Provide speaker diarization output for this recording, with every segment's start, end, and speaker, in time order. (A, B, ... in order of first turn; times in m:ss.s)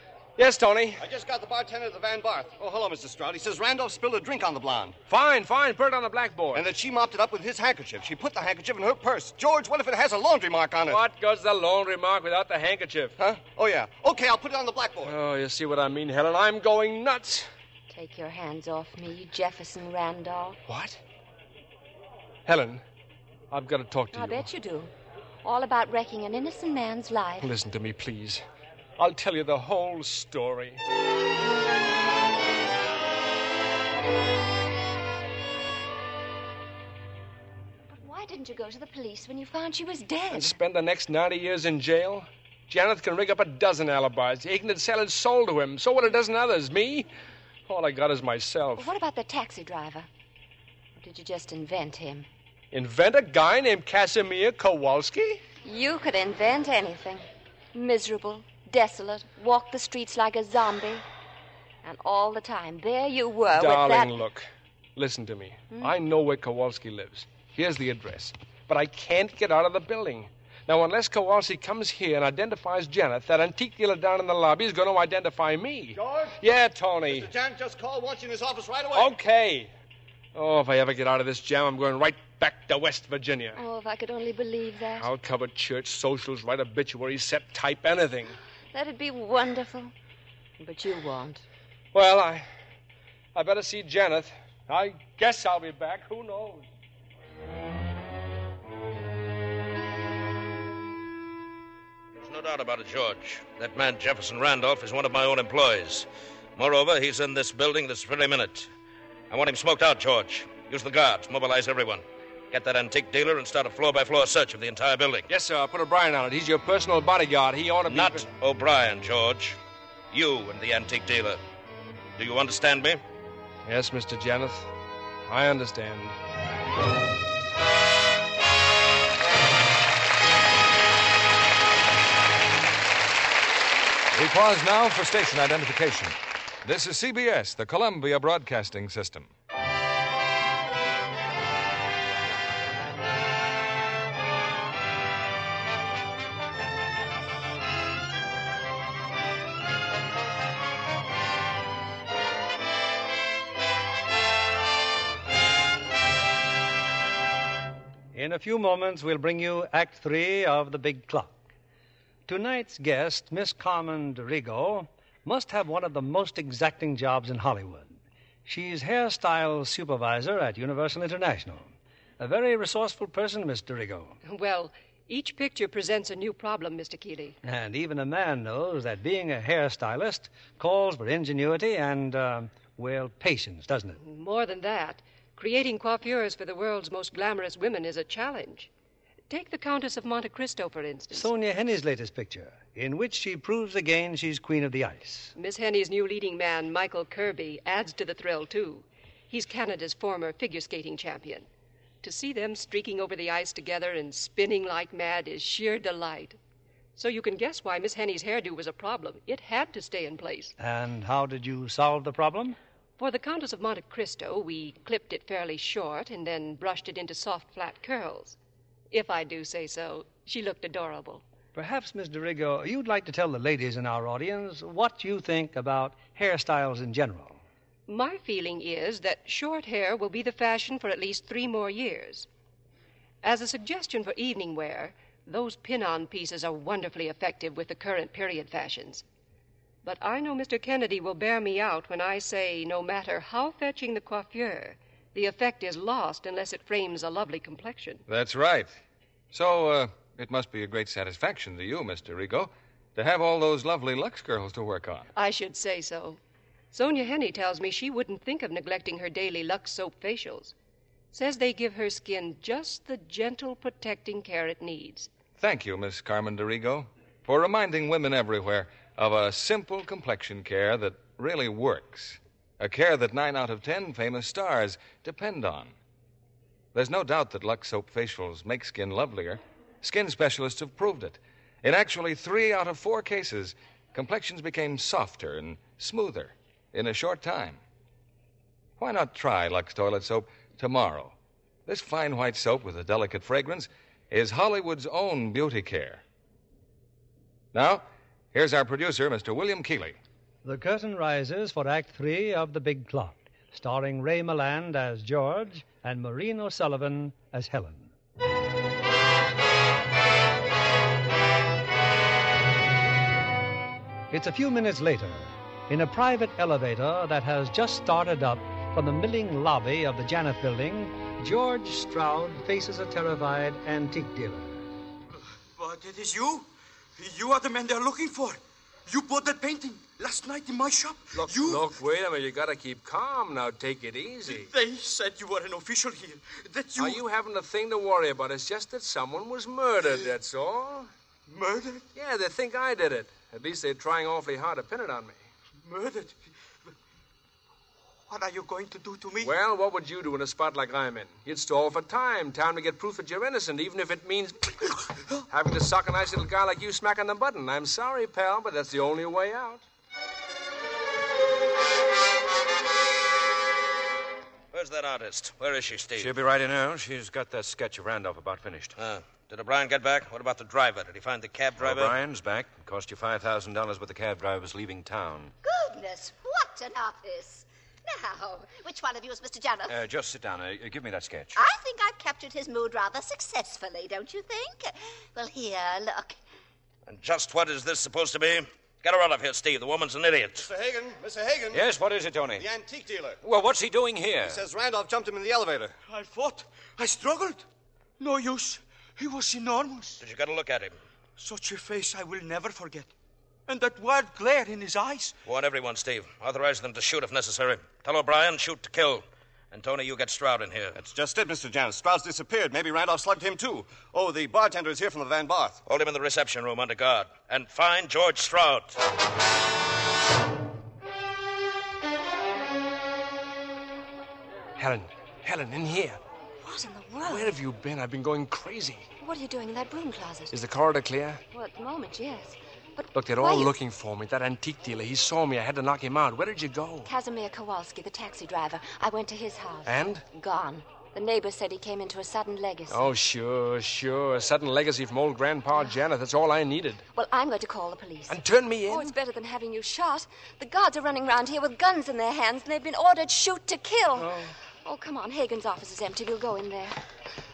0:00.4-0:01.0 A
0:01.0-0:05.0 B
0:05.1-0:06.7 A
0:06.5-0:11.0 B
0:10.9-0:13.2 A
0:13.2-0:15.2 B
0:15.0-0:17.5 A
0:17.9-0:20.6 C
0:20.7-0:21.0 A
0:22.5-0:22.8 A
0:23.5-0:24.5 A
0:24.1-0:24.9 C
0:25.4-0:27.5 C
0:27.4-0:28.4 A
0:29.0-0:30.8 A
0:37.9-0:40.6 C
0:40.3-0:47.1 A
0:47.7-0:48.9 A
0:48.8-0:50.1 C
0:51.0-0:52.3 C
0:52.7-0:55.4 A
0:55.6-1:01.0 C
1:01.8-1:04.1 C
1:03.5-1:17.3 A
1:16.0-1:16.4 B
1:17.1-1:19.1 B
1:18.9-1:19.7 A
1:20.3-1:23.6 A
1:23.6-1:25.1 C
1:25.0-1:28.4 A
1:28.7-1:29.9 C
1:30.6-1:31.4 C
1:31.9-1:32.5 A
1:33.4-1:36.7 A
1:42.2-1:48.7 D
1:49.3-1:55.3 D
1:55.3-1:58.3 A
1:57.9-1:59.6 D
2:00.1-2:01.4 D
2:02.2-2:03.0 D
2:03.7-2:04.7 A
2:05.3-2:06.2 A
2:14.1-2:19.3 E
2:38.1-2:41.4 F
2:42.3-2:54.2 F
2:54.2-2:57.4 G
2:57.4-3:04.0 F
3:04.0-3:08.7 G
3:09.3-3:11.3 G
3:11.1-3:15.3 F
3:15.4-3:21.5 G
3:22.0-3:26.4 G
3:27.0-3:30.5 G
3:30.6-3:32.6 F
3:33.0-3:38.4 G
3:38.9-3:41.2 G
3:41.5-3:47.4 F
3:47.9-3:52.3 G
3:53.2-3:59.0 G
3:59.8-4:08.0 G
4:08.1-4:08.8 E
4:09.3-4:15.1 E
4:15.2-4:16.2 G
4:16.7-4:20.5 G
4:21.1-4:25.1 G
4:25.4-4:35.8 E
4:36.7-4:47.6 E
4:48.8-4:56.0 E
4:57.5-5:00.0 E
5:00.4-5:07.9 F
5:14.1-5:24.7 F
5:25.6-5:31.7 H
5:31.1-5:34.5 A
5:34.3-5:37.0 H
5:36.8-5:40.9 A
5:41.3-5:41.9 H
5:42.0-5:45.2 A
5:45.6-5:46.3 H
5:48.1-5:49.4 H
5:49.2-5:54.5 A
5:55.3-5:59.6 A
6:04.5-6:06.1 D
6:06.0-6:08.8 I
6:08.8-6:12.0 D
6:11.6-6:15.3 I
6:15.4-6:19.8 J
6:19.7-6:21.4 I
6:21.4-6:26.2 J
6:26.9-6:30.5 D
6:30.4-6:31.6 B
6:31.5-6:32.4 I
6:32.4-6:33.2 B
6:33.2-6:34.4 I
6:34.2-6:35.7 B
6:35.9-6:37.4 H
6:38.0-6:40.0 H
6:40.0-6:40.8 D
6:41.2-6:42.9 H
6:43.5-6:45.2 H
6:45.3-6:50.8 D
6:50.8-6:55.6 B
6:55.7-6:58.8 D
7:04.6-7:06.0 A
7:06.4-7:07.3 C
7:07.0-7:08.9 A
7:09.0-7:10.3 C
7:10.3-7:11.2 A
7:11.3-7:13.5 C
7:13.0-7:16.9 A
7:16.8-7:22.9 C
7:19.6-7:20.0 A
7:22.7-7:26.8 A
7:26.9-7:36.8 C
7:28.1-7:29.0 A
7:34.0-7:34.3 A